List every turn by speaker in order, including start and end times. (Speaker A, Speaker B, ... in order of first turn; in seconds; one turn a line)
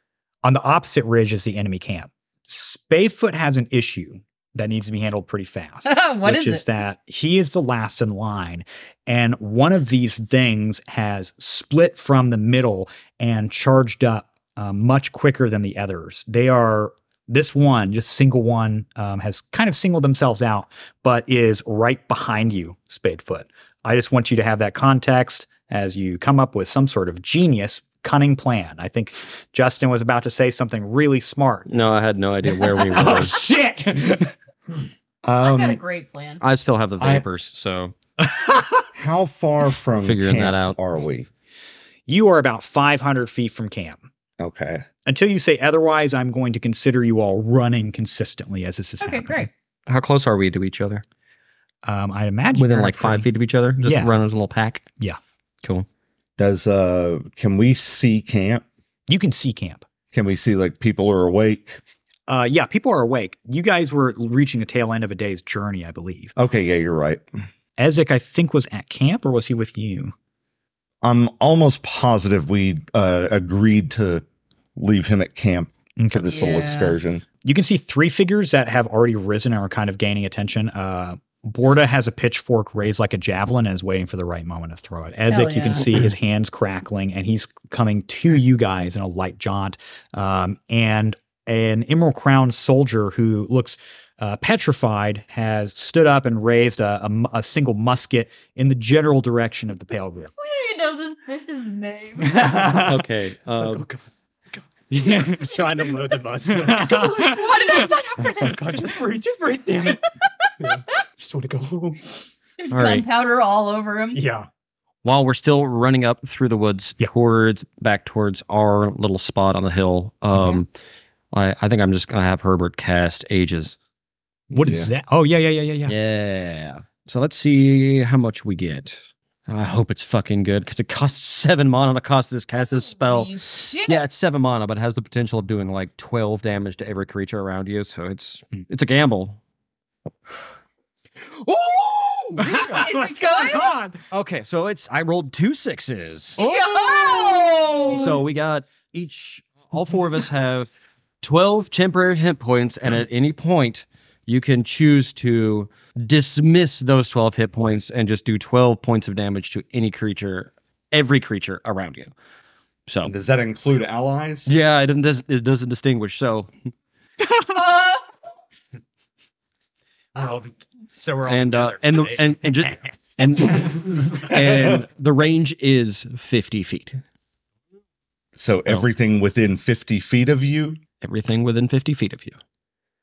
Speaker A: 0.4-31.7
Speaker B: 5.8-6.6
Speaker C: 31.7-33.4
Speaker A: 32.6-34.3
Speaker D: 35.2-35.8
Speaker B: 35.4-36.4
Speaker C: 36.4-37.9
Speaker D: 37.0-37.2
Speaker A: 38.2-38.8
Speaker D: 38.9-41.3
Speaker C: 40.0-40.8
Speaker A: 42.1-44.0
Speaker D: 44.4-44.8
Speaker A: 45.0-49.5
Speaker B: 49.0-49.5
Speaker C: 49.9-51.0
Speaker A: 51.8-53.3
Speaker C: 52.5-54.8
Speaker A: 53.8-54.1
Speaker D: 56.4-58.6
Speaker A: 59.1-59.8
Speaker D: 60.1-61.8
Speaker A: 62.3-66.3
Speaker D: 66.3-67.2
Speaker A: 67.8-70.1
Speaker D: 71.0-74.2
Speaker D: 74.8-77.2
Speaker A: 76.0-76.4
Speaker B: 76.3-77.0
Speaker A: 77.4-100.3
Speaker B: 85.3-85.8
Speaker B: 100.4-102.5
Speaker A: 102.2-103.0
Speaker C: 102.6-103.8
Speaker A: 103.6-103.9
Speaker E: 104.9-107.4
Speaker A: 105.0-105.6
Speaker A: 106.5-107.9
Speaker B: 107.0-108.8
Speaker E: 108.4-110.0
Speaker E: 110.6-112.0
Speaker B: 112.6-114.2
Speaker C: 112.7-113.0
Speaker E: 114.1-114.5
Speaker C: 115.0-120.7
Speaker C: 121.3-123.8
Speaker A: 124.5-126.0
Speaker D: 124.6-124.9
Speaker C: 125.9-139.4
Speaker B: 132.9-134.0
Speaker C: 141.3-142.6
Speaker A: 142.4-144.0
Speaker B: 142.5-143.7
Speaker C: 144.1-146.4
Speaker B: 146.4-147.7
Speaker A: 146.4-148.1
Speaker C: 147.9-162.1
Speaker D: 163.0-164.6
Speaker C: 164.4-166.5
Speaker E: 170.2-172.7
Speaker C: 171.3-177.0
Speaker E: 173.4-174.2
Speaker D: 174.4-174.8
Speaker D: 178.3-180.8
Speaker C: 181.0-182.4